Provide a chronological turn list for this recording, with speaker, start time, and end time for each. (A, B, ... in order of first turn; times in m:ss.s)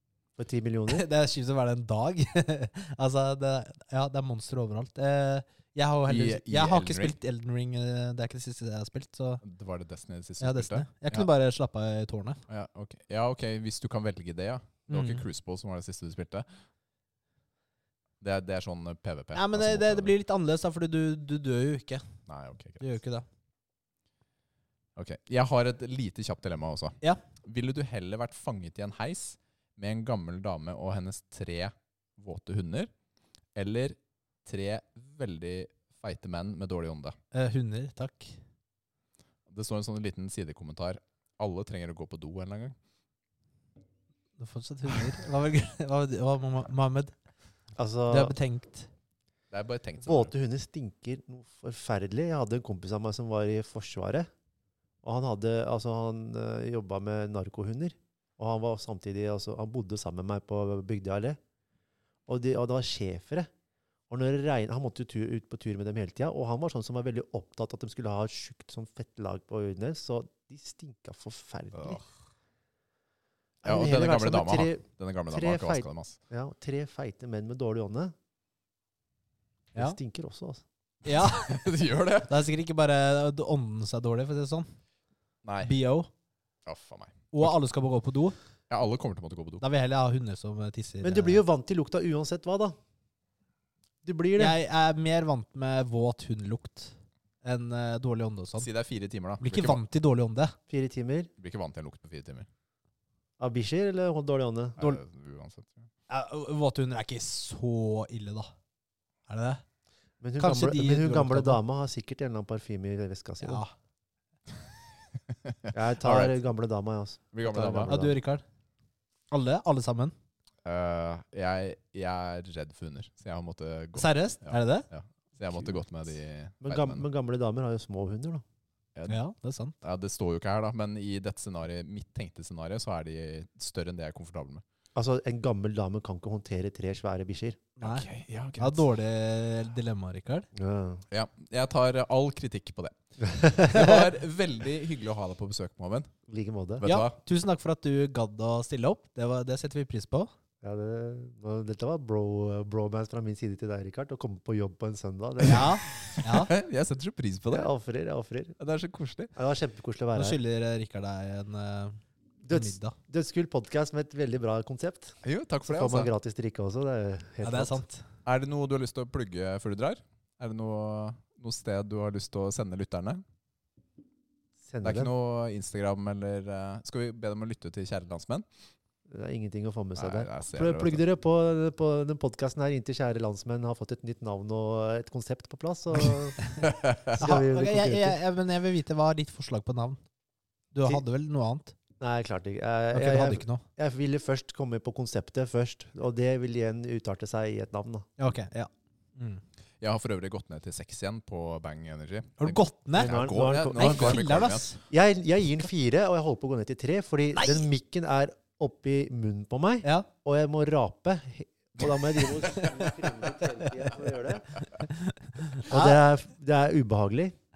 0:00.4-0:01.0 A
0:00.9-0:09.4 B
0:06.1-0:07.1 C
0:09.4-0:11.3 C
0:10.4-0:12.4 B
0:12.5-0:16.5 C
0:14.9-0:15.3 B
0:18.2-0:20.1 C
0:19.3-0:22.1 B
0:22.3-0:22.9 C
0:22.8-0:23.3 B
0:25.0-0:32.9 C
0:33.6-0:37.2 C
0:37.3-0:38.4 B
0:39.5-0:42.8 C
0:44.4-0:47.1 B
0:47.8-0:48.3 A
0:48.1-0:48.9 B
0:49.5-0:50.3 C
0:50.0-0:54.3 A
0:55.0-1:01.4 A
1:02.3-1:03.5 A
1:04.1-1:12.0 A
1:11.8-1:12.0 C
1:13.6-1:18.2 A
1:13.6-1:16.2 C
1:19.8-1:20.6 A
1:21.0-1:21.7 B
1:21.2-1:22.4 C
1:22.3-1:24.7 B
1:25.4-1:25.8 C
1:25.6-1:26.1 B
1:26.7-1:27.5 C
1:27.3-1:28.4 B
1:28.7-1:29.6 C
1:29.6-1:31.4 B
1:31.0-1:32.8 A
1:34.0-1:34.6 A
1:34.4-1:38.7 B
1:38.6-1:39.8 C
1:39.4-1:40.6 B
1:40.7-1:41.3 A
1:41.4-1:42.5 C
1:43.4-1:44.8 A
1:44.8-1:45.9 C
1:46.1-1:48.5 B
1:49.3-1:49.6 B
1:50.2-1:53.6 A
1:50.4-1:51.6 B
1:53.4-1:53.7 B
1:55.3-1:56.4 C
1:55.7-1:58.2 A
1:57.3-1:58.0 C
1:57.9-1:58.4 B
1:59.3-2:00.1 B
2:00.6-2:07.0 C
2:04.0-2:04.9 B
2:06.6-2:08.4 A
2:09.0-2:09.2 C
2:09.1-2:09.8 B
2:09.8-2:14.6 C
2:15.0-2:17.6 A
2:17.8-2:18.1 B
2:17.8-2:18.8 C
2:18.6-2:20.5 B
2:20.5-2:21.0 A
2:21.1-2:23.0 C
2:23.2-2:23.9 A
2:23.5-2:26.1 C
2:26.3-2:26.8 A
2:26.8-2:27.2 C
2:26.8-2:30.3 B
2:30.6-2:35.7 A
2:35.4-2:36.5 B
2:36.1-2:37.7 C
2:37.5-2:38.6 A
2:38.6-2:39.3 C
2:39.4-2:40.4 A
2:40.2-2:43.0 B
2:42.4-2:47.8 A
2:45.2-2:46.1 C
2:47.4-2:48.0 B
2:48.2-2:53.2 C
2:54.6-2:55.1 A
2:54.8-2:58.5 C
2:59.1-3:08.2 A
3:00.0-3:01.0 C
3:06.7-3:07.2 C
3:07.2-3:10.0 B
3:10.7-3:11.8 B
3:12.0-3:18.1 A
3:12.9-3:13.6 B
3:18.2-3:19.4 B
3:19.8-3:24.7 C
3:22.4-3:23.1 B
3:23.0-3:24.3 A
3:23.7-3:24.8 B
3:24.9-3:34.6 A
3:27.4-3:27.6 B
3:32.2-3:33.7 B
3:34.6-3:36.0 B
3:35.6-3:37.4 A